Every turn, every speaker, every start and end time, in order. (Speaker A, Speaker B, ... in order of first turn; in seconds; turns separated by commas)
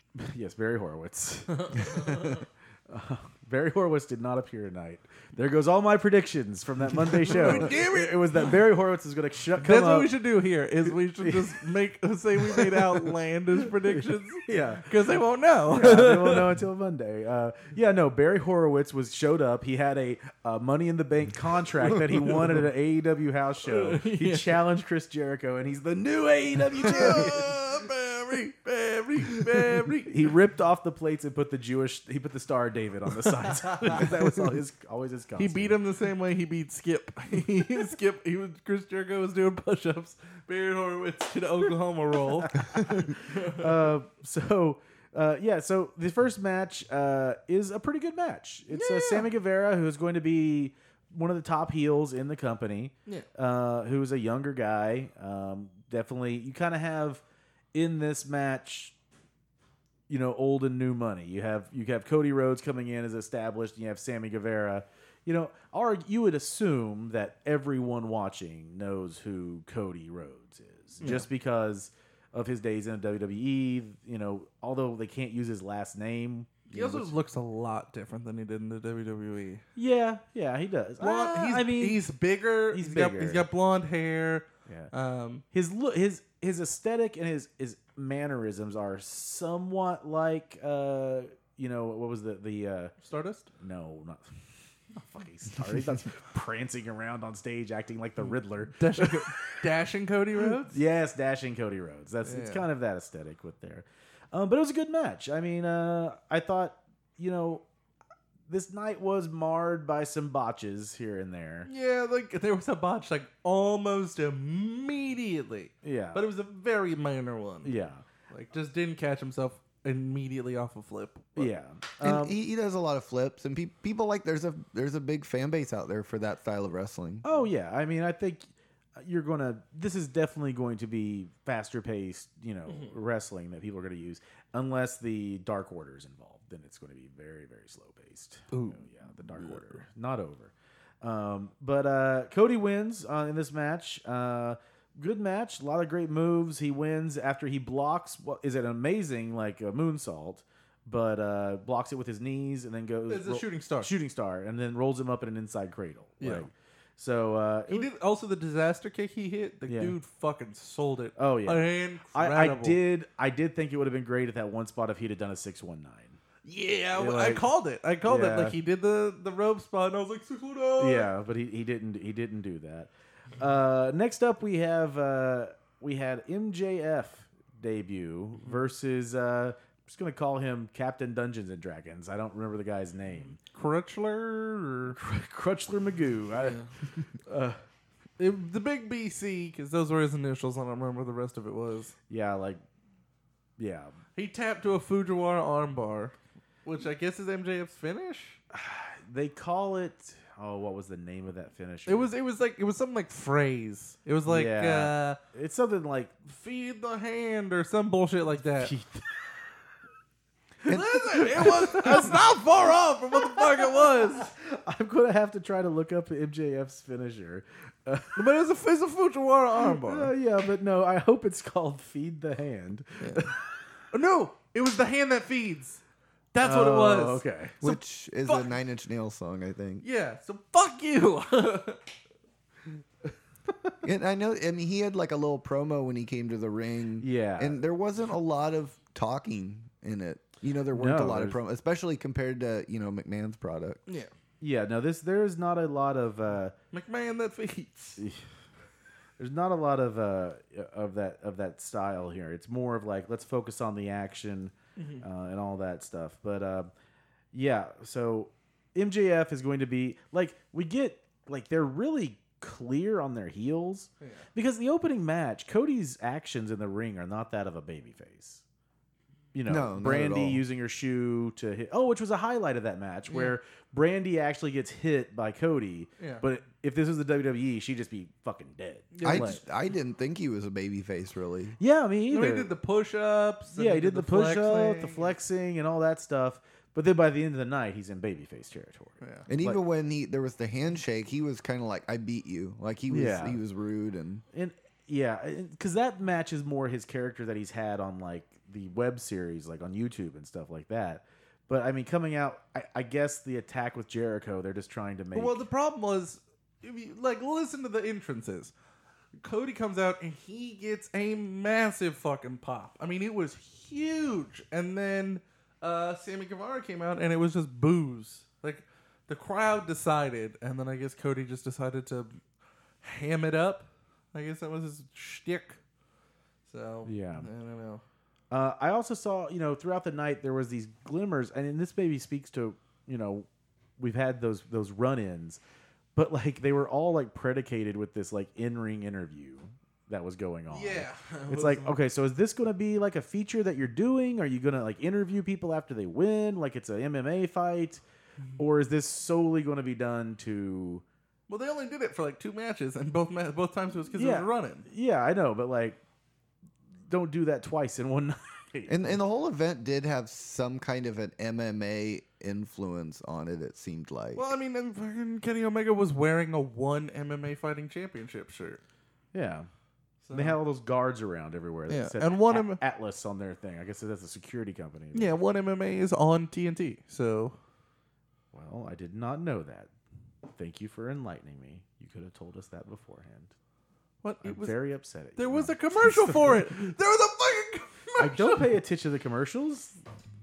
Speaker A: 0.1-2.3, Speaker A: 2.9-10.1, Speaker B: 7.0-8.6, Speaker B: 9.6-16.6, Speaker A: 11.2-11.6, Speaker A: 12.5-13.1, Speaker A: 14.0-14.9, Speaker A: 15.7-27.5, Speaker B: 23.6-24.6, Speaker B: 26.7-30.3, Speaker A: 30.1-35.8, Speaker B: 33.7-34.2, Speaker B: 35.4-43.8, Speaker A: 42.7-57.2, Speaker B: 48.7-49.3, Speaker A: 57.7-58.9, Speaker A: 60.1-77.1, Speaker B: 71.0-71.3, Speaker B: 76.7-79.6, Speaker A: 79.8-82.0, Speaker B: 81.0-85.4, Speaker A: 82.7-83.4, Speaker A: 84.7-84.9, Speaker A: 85.5-92.9, Speaker B: 93.0-93.5, Speaker A: 93.6-94.3, Speaker A: 95.0-99.6, Speaker B: 98.8-100.8, Speaker A: 100.7-107.6, Speaker B: 102.2-102.6, Speaker A: 108.5-111.7, Speaker B: 111.7-117.7, Speaker A: 115.8-116.2, Speaker A: 117.6-118.0, Speaker B: 118.3-121.5, Speaker A: 121.4-122.4, Speaker C: 122.0-127.2, Speaker A: 127.2-157.9, Speaker B: 138.5-138.8, Speaker B: 139.3-139.8, Speaker B: 153.1-153.9, Speaker B: 156.2-156.5, Speaker B: 157.7-162.8, Speaker A: 159.7-159.9, Speaker A: 161.2-166.2, Speaker B: 166.4-171.1, Speaker A: 166.9-167.4, Speaker A: 168.0-168.6, Speaker A: 170.8-183.4, Speaker B: 183.3-185.0, Speaker A: 184.9-186.6, Speaker B: 186.4-186.7, Speaker A: 187.2-187.6, Speaker B: 188.2-191.9, Speaker A: 192.1-192.6, Speaker A: 193.6-193.9, Speaker B: 194.2-196.1, Speaker B: 196.6-198.4, Speaker A: 198.5-202.1, Speaker B: 201.9-205.2, Speaker A: 204.2-206.2, Speaker B: 206.3-208.7, Speaker A: 208.6-209.1, Speaker C: 210.7-211.5, Speaker B: 210.7-214.3, Speaker A: 210.7-212.2, Speaker A: 214.2-218.3, Speaker B: 218.2-220.1, Speaker A: 219.6-223.5, Speaker B: 223.0-223.3, Speaker B: 223.9-225.8, Speaker B: 226.3-228.6, Speaker A: 226.4-227.6, Speaker C: 227.6-229.8, Speaker B: 229.8-231.8, Speaker C: 233.8-243.8, Speaker A: 237.0-237.6, Speaker A: 240.7-241.4, Speaker A: 244.4-246.5, Speaker B: 246.7-248.0, Speaker A: 248.0-248.2, Speaker A: 249.2-256.7, Speaker B: 254.8-255.0, Speaker A: 257.3-268.4, Speaker A: 269.3-279.4, Speaker C: 269.5-270.4, Speaker B: 273.1-273.4, Speaker B: 278.9-279.4, Speaker C: 279.0-281.6, Speaker A: 281.6-282.5, Speaker B: 282.1-285.1, Speaker A: 283.5-289.6, Speaker B: 289.0-289.3, Speaker C: 289.3-294.2, Speaker A: 292.9-293.4, Speaker A: 294.3-305.4, Speaker B: 305.1-308.5, Speaker B: 309.2-322.2, Speaker B: 322.8-325.6, Speaker B: 326.5-327.8, Speaker A: 326.9-327.3, Speaker A: 328.3-333.3, Speaker A: 333.8-335.4, Speaker A: 335.9-347.8, Speaker B: 340.5-341.8, Speaker A: 348.4-350.8, Speaker B: 351.3-354.6, Speaker A: 353.9-355.8, Speaker A: 356.9-359.0, Speaker C: 358.7-364.2, Speaker B: 364.1-368.6, Speaker A: 369.1-369.5, Speaker B: 370.0-370.4, Speaker A: 370.1-375.1, Speaker B: 371.7-372.6, Speaker B: 374.9-377.4, Speaker A: 378.3-379.7, Speaker A: 380.3-383.3, Speaker B: 384.0-384.6, Speaker A: 384.2-386.7, Speaker B: 385.1-388.6, Speaker A: 388.0-389.8